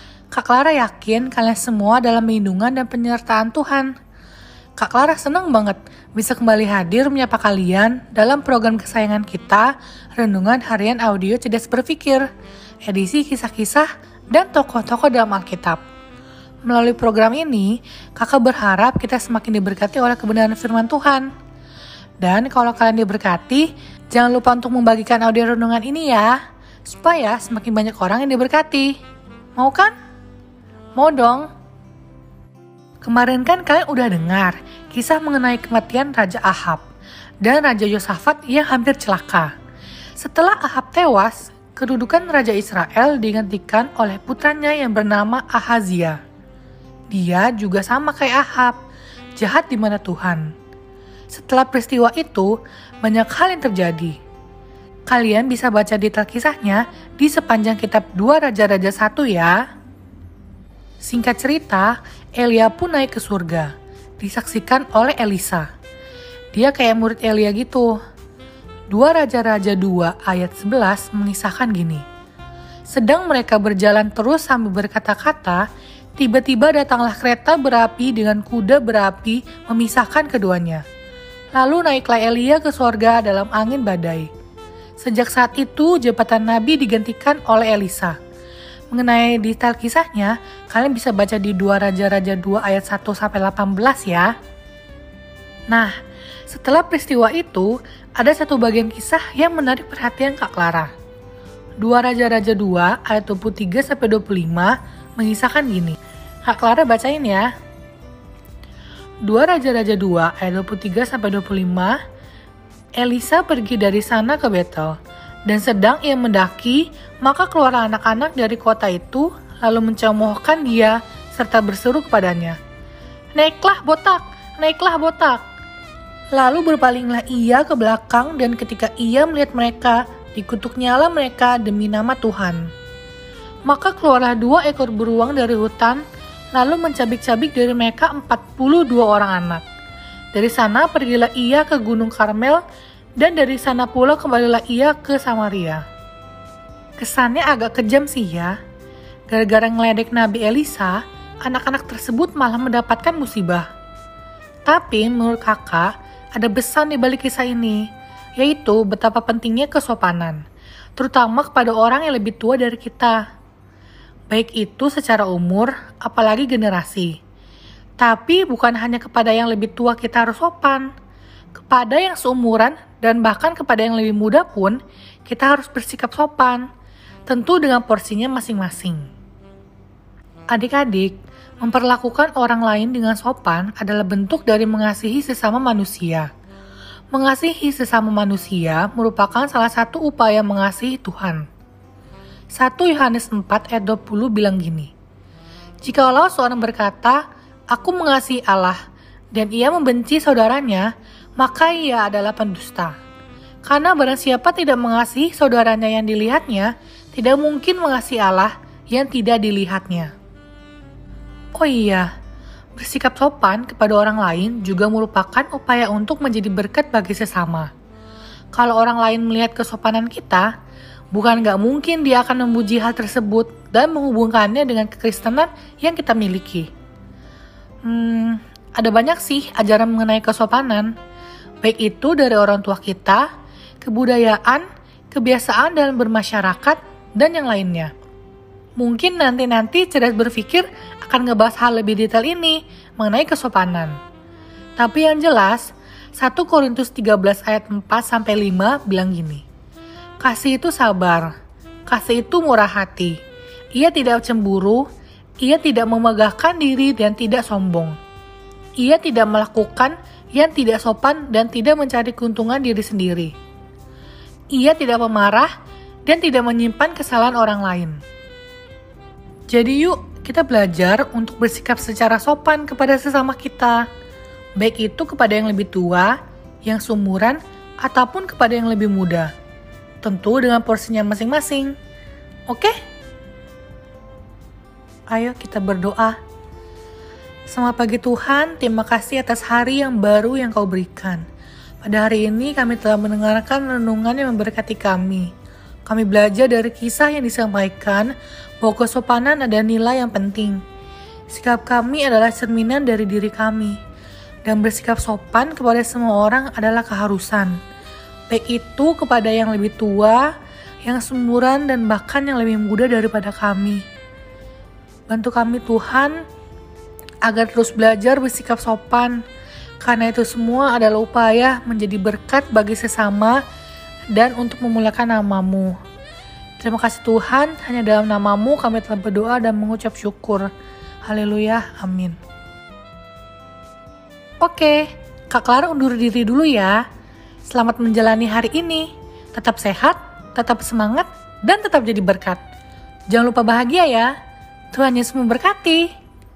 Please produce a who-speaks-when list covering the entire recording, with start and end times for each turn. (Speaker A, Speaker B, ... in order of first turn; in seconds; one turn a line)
Speaker A: 0.3-4.0
Speaker A: 4.8-12.3
Speaker A: 12.8-15.8
Speaker A: 16.6-21.3
Speaker A: 22.2-28.9
Speaker A: 29.6-29.9
Speaker A: 30.9-31.5
Speaker A: 33.0-36.8
Speaker A: 37.4-39.5
Speaker A: 40.2-46.2
Speaker A: 47.1-48.8
Speaker A: 49.4-50.5
Speaker A: 51.3-54.2
Speaker A: 55.1-59.6
Speaker A: 61.0-65.7
Speaker A: 66.5-68.0
Speaker A: 68.9-72.0
Speaker A: 72.9-75.7
Speaker A: 76.2-80.8
Speaker A: 81.5-84.3
Speaker A: 85.0-88.2
Speaker A: 88.9-94.3
Speaker A: 95.7-96.0
Speaker A: 96.5-100.9
Speaker A: 101.8-107.5
Speaker A: 109.2-112.0
Speaker A: 113.0-115.0
Speaker A: 115.5-122.6
Speaker A: 123.3-125.4
Speaker A: 126.3-132.7
Speaker A: 133.7-136.0
Speaker A: 136.5-139.6
Speaker A: 140.3-142.6
Speaker A: 143.2-145.8
Speaker A: 147.0-148.6
Speaker A: 149.3-153.7
Speaker A: 154.7-157.9
Speaker A: 158.4-160.4
Speaker A: 161.0-163.2
Speaker A: 164.3-167.2
Speaker A: 168.0-170.9
Speaker A: 171.6-176.7
Speaker A: 177.3-179.1
Speaker A: 180.5-186.3
Speaker A: 187.1-191.5
Speaker A: 192.5-194.9
Speaker A: 195.8-198.8
Speaker A: 199.3-202.9
Speaker A: 203.6-210.1
Speaker A: 211.5-212.1
Speaker A: 212.8-217.7
Speaker A: 218.5-220.5
Speaker A: 221.1-226.7
Speaker A: 227.8-230.9
Speaker A: 231.6-233.3
Speaker A: 233.8-237.9
Speaker A: 238.8-244.0
Speaker A: 244.8-249.4
Speaker A: 250.2-251.3
Speaker A: 251.9-253.2
Speaker A: 253.8-254.9
Speaker A: 255.4-258.0
Speaker A: 258.8-263.3
Speaker A: 264.5-265.5
Speaker A: 266.0-268.0
Speaker A: 269.5-273.9
Speaker A: 274.6-279.3
Speaker A: 280.0-281.8
Speaker A: 282.5-282.8
Speaker A: 285.1-286.2
Speaker A: 287.5-291.2
Speaker A: 291.8-295.3
Speaker A: 295.9-300.6
Speaker A: 301.3-303.8
Speaker A: 304.4-307.6
Speaker A: 308.3-310.3
Speaker A: 310.8-313.8
Speaker A: 315.1-316.2
Speaker A: 317.2-319.2
Speaker A: 319.8-323.4
Speaker A: 324.1-325.8
Speaker A: 326.6-330.5
Speaker A: 331.0-332.2
Speaker A: 334.4-336.8
Speaker A: 337.4-342.4
Speaker A: 343.1-344.1
Speaker A: 344.7-345.9